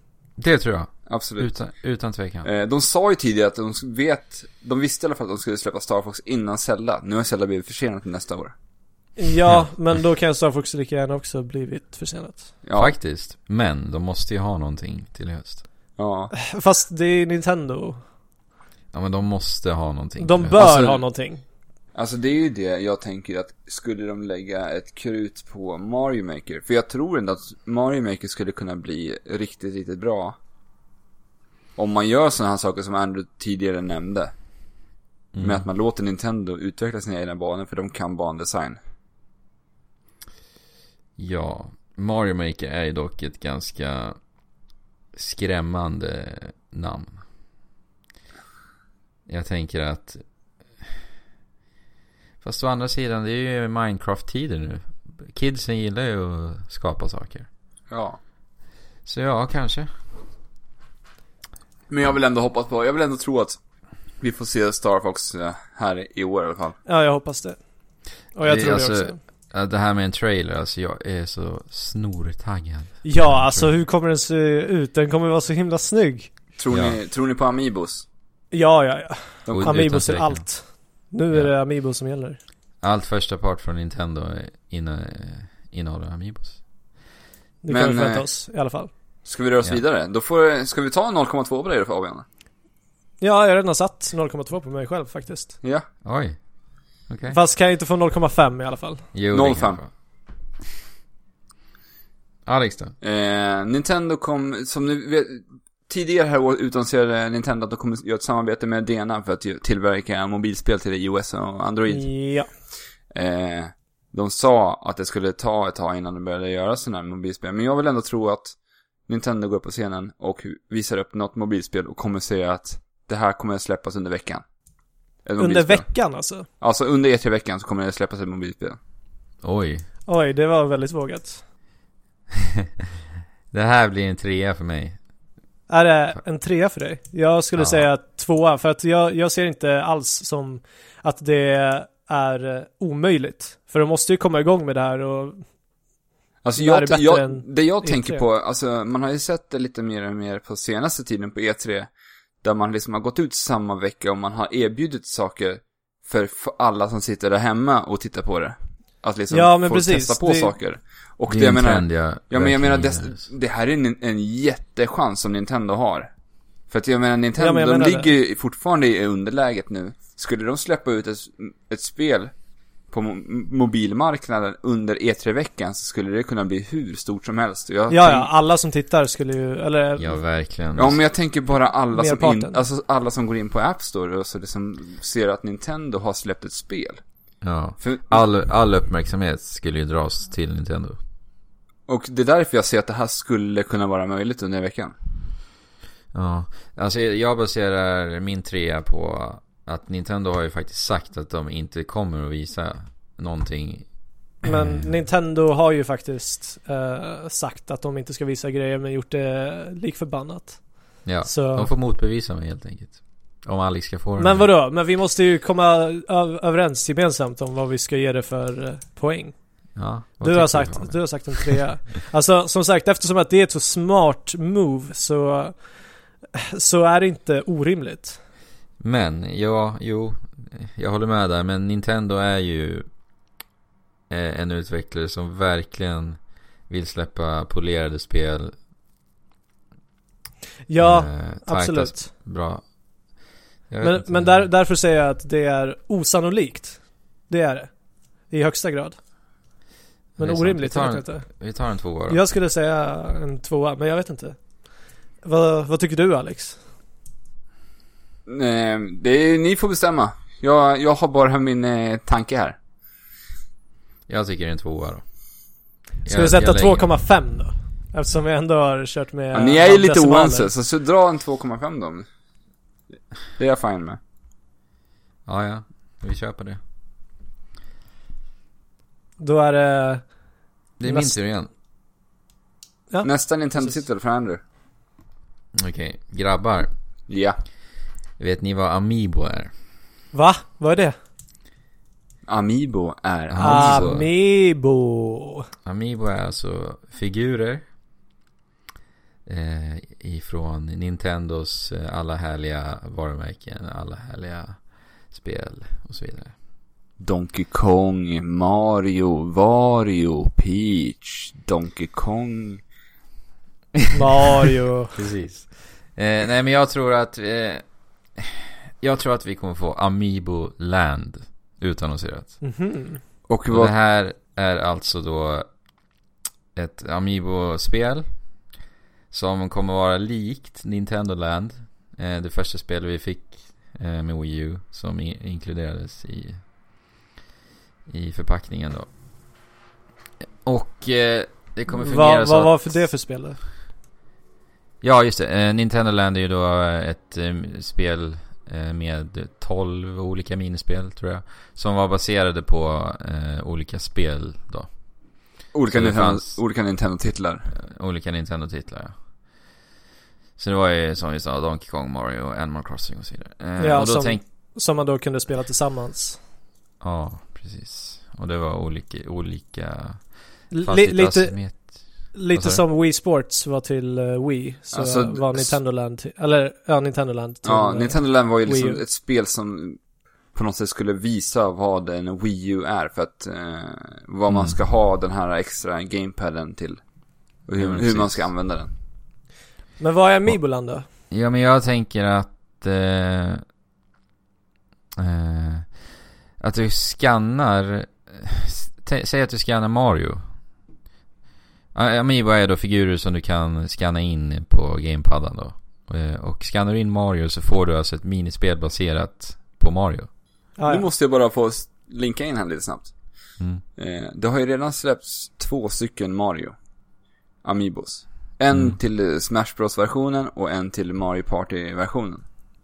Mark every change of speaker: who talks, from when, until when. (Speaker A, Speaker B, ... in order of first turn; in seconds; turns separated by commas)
Speaker A: 0.4-2.5, Speaker B: 1.1-1.5, Speaker B: 2.4-8.5, Speaker C: 9.2-12.5, Speaker B: 12.6-12.9, Speaker A: 12.8-15.6, Speaker B: 16.0-16.3, Speaker C: 16.3-18.0, Speaker A: 18.9-21.0, Speaker C: 20.2-21.4, Speaker B: 21.9-30.4, Speaker B: 31.8-34.3, Speaker A: 35.3-35.6, Speaker B: 35.4-38.8, Speaker A: 41.2-44.2, Speaker A: 45.1-47.2, Speaker A: 49.3-50.2, Speaker A: 52.4-57.5, Speaker B: 57.9-58.2, Speaker A: 59.0-59.9, Speaker B: 61.9-63.6, Speaker B: 64.2-66.8, Speaker C: 66.8-67.6, Speaker C: 68.3-69.2, Speaker A: 68.4-73.7, Speaker C: 73.0-76.3, Speaker B: 76.6-78.0, Speaker A: 76.7-77.0, Speaker C: 78.5-82.4, Speaker B: 79.5-79.9, Speaker A: 79.5-80.5, Speaker A: 82.8-86.6, Speaker C: 87.6-88.9, Speaker B: 87.7-88.3, Speaker B: 89.2-92.2, Speaker C: 93.2-95.5, Speaker A: 96.0-96.4, Speaker A: 97.1-97.4, Speaker C: 97.3-99.1, Speaker A: 99.1-99.9, Speaker B: 99.3-99.8, Speaker A: 102.5-102.9, Speaker B: 103.0-112.1, Speaker C: 111.9-112.5, Speaker B: 113.1-124.5, Speaker B: 125.2-125.9, Speaker C: 125.4-126.5, Speaker B: 126.6-128.8, Speaker A: 129.4-129.9, Speaker C: 130.1-131.4, Speaker A: 133.5-135.0, Speaker C: 135.7-145.4, Speaker A: 137.5-137.8, Speaker B: 146.4-151.9, Speaker C: 146.6-148.2, Speaker B: 152.4-166.1, Speaker C: 159.3-160.5, Speaker A: 161.3-163.2, Speaker B: 166.7-172.3, Speaker C: 167.4-168.1, Speaker B: 172.9-178.3, Speaker C: 177.9-180.2, Speaker A: 180.0-181.0, Speaker B: 180.8-187.0, Speaker C: 181.9-182.6, Speaker A: 187.4-191.0, Speaker B: 187.8-188.2, Speaker B: 191.9-194.9, Speaker A: 196.1-203.9, Speaker C: 204.4-211.7, Speaker A: 211.0-214.5, Speaker C: 214.2-219.3, Speaker A: 219.8-221.6, Speaker C: 220.2-225.8, Speaker C: 226.3-228.2, Speaker A: 228.8-232.9, Speaker A: 234.1-238.6, Speaker C: 240.7-242.1, Speaker A: 240.8-242.6, Speaker A: 243.7-244.5, Speaker C: 243.8-247.7, Speaker C: 248.3-249.0, Speaker C: 250.2-251.4, Speaker A: 250.2-252.2, Speaker C: 252.1-254.4, Speaker C: 255.2-256.6, Speaker B: 258.2-262.6, Speaker A: 264.1-265.0, Speaker A: 266.0-266.9, Speaker C: 266.1-270.5, Speaker B: 269.3-272.1, Speaker B: 273.4-274.0, Speaker A: 275.2-276.6, Speaker C: 279.2-280.1, Speaker A: 280.8-281.5, Speaker C: 280.8-281.1, Speaker B: 283.0-284.4, Speaker A: 285.5-286.7, Speaker B: 287.1-287.4, Speaker A: 288.2-289.5, Speaker C: 290.1-290.9, Speaker B: 292.3-293.9, Speaker A: 293.3-294.1, Speaker C: 293.4-295.5, Speaker A: 295.6-297.6, Speaker A: 299.2-306.3, Speaker B: 307.0-312.6, Speaker C: 313.9-315.0, Speaker A: 314.9-317.6, Speaker A: 318.1-322.4, Speaker C: 322.4-323.0, Speaker B: 323.3-323.7, Speaker A: 323.5-325.5, Speaker A: 326.5-328.2, Speaker A: 329.1-336.4, Speaker A: 337.9-338.9, Speaker A: 340.4-342.9, Speaker C: 341.7-343.4, Speaker A: 344.8-354.7, Speaker B: 355.5-357.5, Speaker A: 355.6-356.4, Speaker A: 357.5-358.9, Speaker A: 360.4-364.2, Speaker C: 363.6-366.2, Speaker A: 366.8-372.6, Speaker C: 370.5-378.8, Speaker B: 374.7-375.6, Speaker B: 377.4-379.8, Speaker B: 380.3-386.8, Speaker A: 384.3-384.6, Speaker B: 387.4-388.7, Speaker A: 387.6-388.3, Speaker C: 389.8-390.8, Speaker A: 391.1-393.4, Speaker A: 395.0-400.3, Speaker A: 401.7-410.1, Speaker C: 410.6-410.9, Speaker B: 410.7-412.9, Speaker B: 413.7-416.5, Speaker B: 417.4-422.2, Speaker A: 418.5-418.8